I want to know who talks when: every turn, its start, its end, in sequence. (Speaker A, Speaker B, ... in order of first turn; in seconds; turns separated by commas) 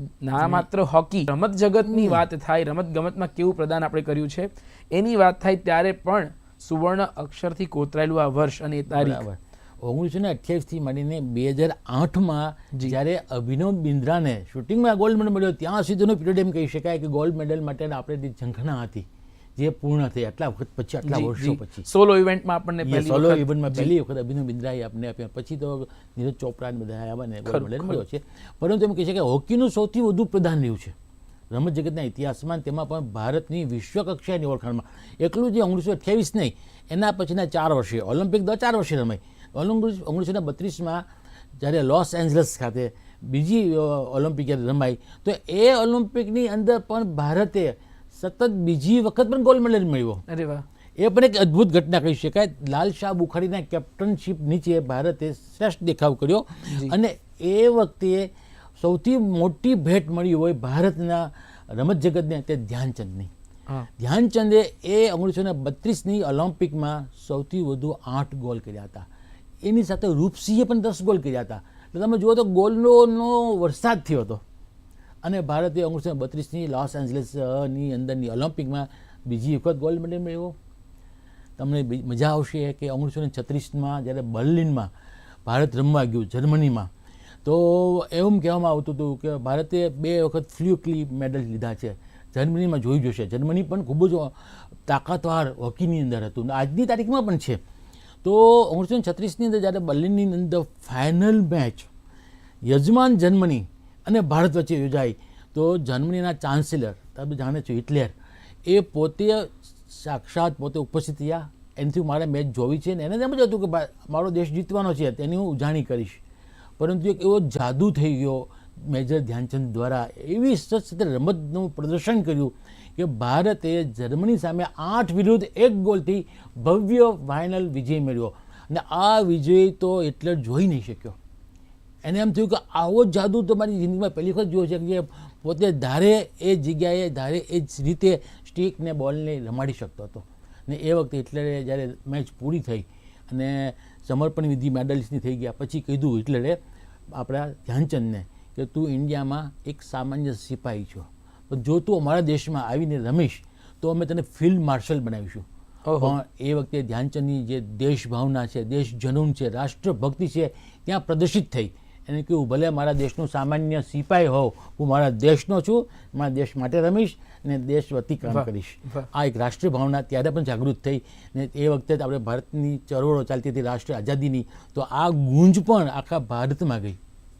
Speaker A: 0.2-9.2, Speaker B: 0.4-0.7, Speaker B: 1.9-2.2, Speaker B: 8.9-19.1, Speaker B: 19.6-21.9, Speaker A: 21.0-23.9, Speaker B: 22.8-30.9, Speaker A: 27.4-28.0, Speaker B: 31.5-41.0, Speaker B: 41.6-50.2, Speaker A: 50.3-50.6, Speaker B: 51.0-63.3, Speaker A: 56.7-57.0, Speaker B: 64.0-69.1, Speaker B: 69.6-74.4, Speaker B: 75.2-80.5, Speaker B: 81.6-84.9, Speaker B: 85.4-86.9, Speaker B: 87.4-97.6, Speaker B: 98.2-101.9, Speaker B: 102.6-108.1, Speaker B: 108.7-116.2, Speaker B: 116.8-131.2, Speaker B: 132.0-155.4, Speaker A: 155.8-156.2, Speaker B: 156.0-177.0, Speaker A: 168.2-169.1